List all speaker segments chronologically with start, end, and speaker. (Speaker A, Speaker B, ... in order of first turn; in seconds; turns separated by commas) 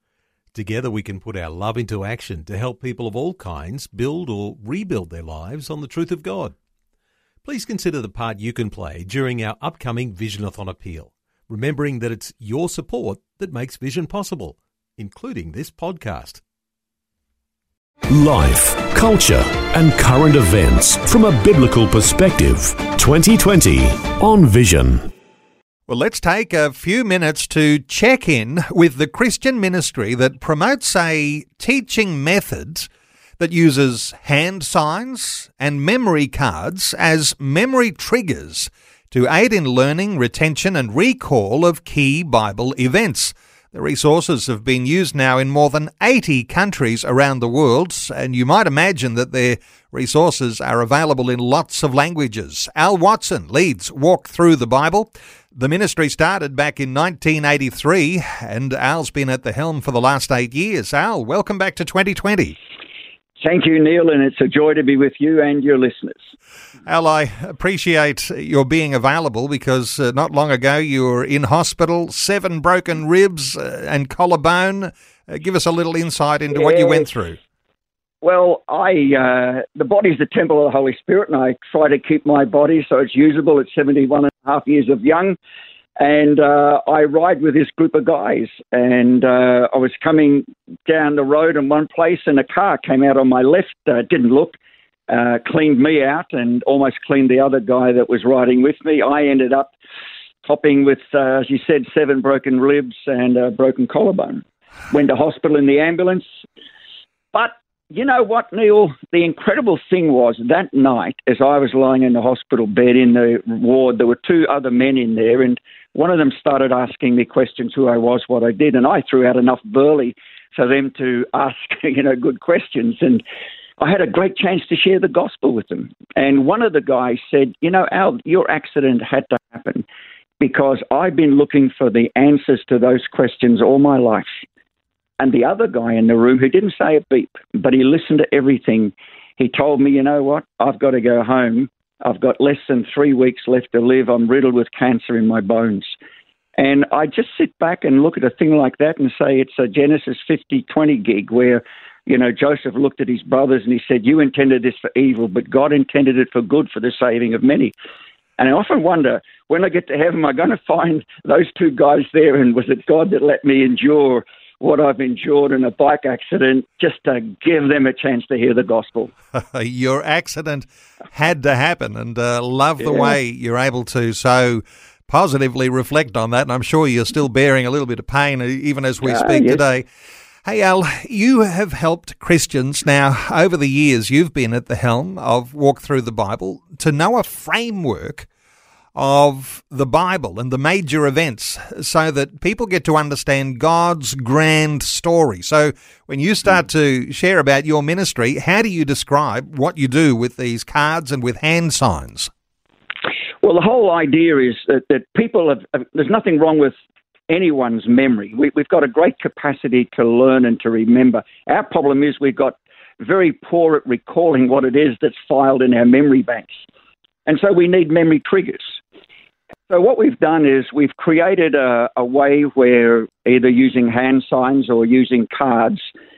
Speaker A: 0.5-6.5, Speaker A: 7.5-16.4, Speaker B: 18.1-25.1, Speaker C: 25.9-62.6, Speaker D: 63.4-66.3, Speaker C: 66.9-77.4, Speaker D: 76.5-77.1, Speaker D: 78.2-85.4, Speaker D: 86.0-94.6, Speaker D: 95.1-99.7, Speaker D: 100.4-106.2, Speaker D: 107.3-123.2, Speaker D: 123.8-129.8, Speaker D: 130.4-134.4, Speaker D: 135.2-145.9, Speaker D: 146.6-157.7, Speaker D: 158.4-169.1, Speaker C: 169.4-179.9, Speaker D: 179.1-179.6, Speaker C: 180.4-188.3, Speaker C: 188.9-202.3, Speaker D: 203.4-206.7, Speaker D: 207.3-216.5, Speaker D: 217.3-218.8, Speaker D: 219.7-225.9